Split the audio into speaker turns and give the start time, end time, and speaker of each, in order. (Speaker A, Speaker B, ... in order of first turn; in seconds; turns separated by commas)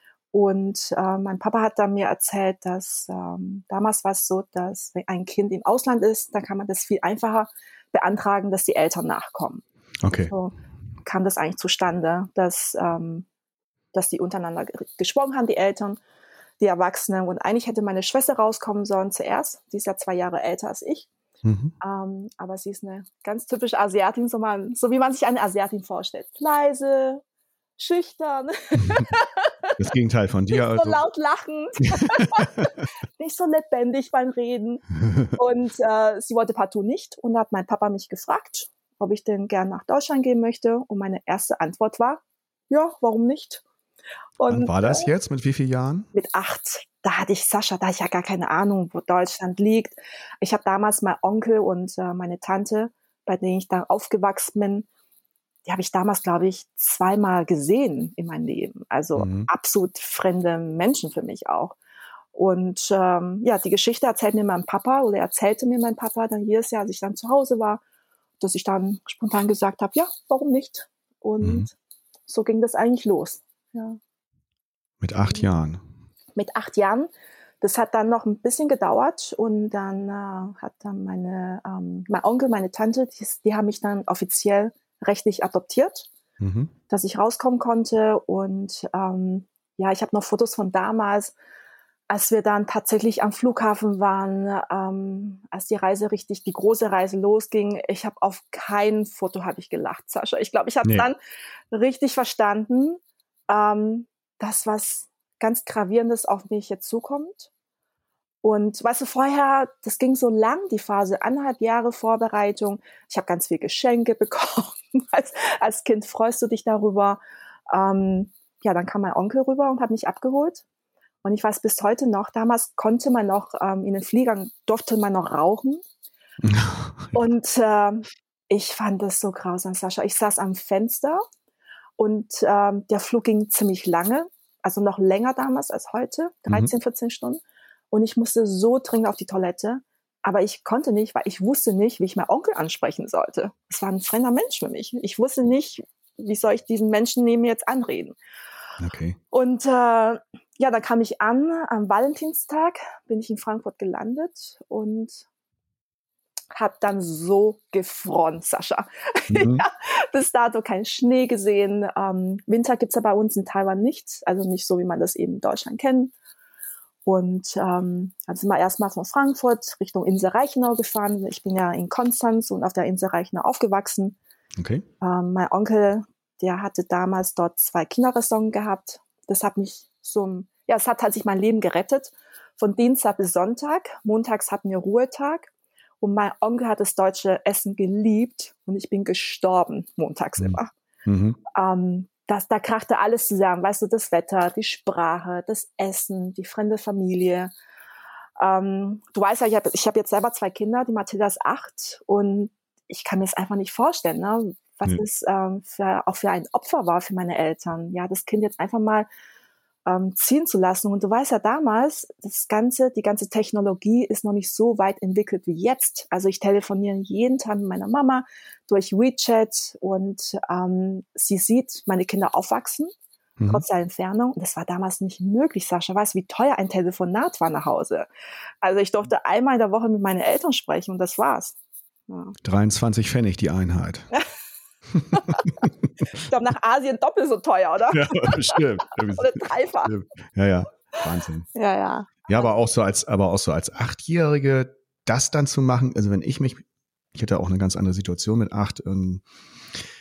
Speaker A: 0.3-9.6, Speaker B: 10.0-10.3, Speaker A: 10.3-10.5, Speaker A: 11.0-13.2, Speaker A: 13.9-16.0, Speaker A: 16.6-21.1, Speaker B: 21.4-21.7, Speaker A: 21.8-27.2, Speaker A: 27.8-29.7, Speaker B: 29.8-31.0, Speaker A: 30.5-43.6, Speaker A: 44.4-45.1, Speaker B: 44.5-46.1, Speaker A: 46.1-54.9, Speaker A: 55.6-61.8, Speaker B: 59.1-59.5, Speaker A: 62.3-67.8, Speaker A: 68.4-71.7, Speaker B: 71.4-71.7, Speaker A: 72.3-74.0, Speaker B: 75.0-75.8, Speaker A: 76.3-77.1, Speaker A: 77.6-86.1, Speaker B: 86.4-86.7, Speaker A: 86.9-91.3, Speaker A: 92.1-101.2, Speaker B: 100.8-101.1, Speaker A: 101.7-107.5, Speaker A: 108.4-120.6, Speaker A: 121.2-125.8, Speaker B: 126.4-127.2, Speaker A: 127.1-131.2, Speaker A: 132.0-148.2, Speaker B: 148.8-149.2, Speaker A: 149.3-155.2, Speaker A: 156.5-166.1, Speaker B: 159.3-159.6, Speaker A: 167.0-174.2, Speaker B: 174.6-174.9, Speaker A: 175.0-185.5, Speaker A: 186.0-190.7, Speaker B: 190.4-191.4, Speaker A: 191.5-197.5, Speaker A: 198.4-209.1, Speaker A: 209.9-222.9, Speaker B: 223.4-223.6, Speaker A: 223.4-228.1, Speaker A: 228.6-231.5, Speaker A: 232.1-232.3, Speaker B: 232.4-234.1, Speaker B: 234.9-235.7, Speaker A: 235.1-235.4, Speaker A: 236.1-239.9, Speaker B: 237.9-241.5, Speaker A: 241.5-242.5, Speaker B: 242.3-249.2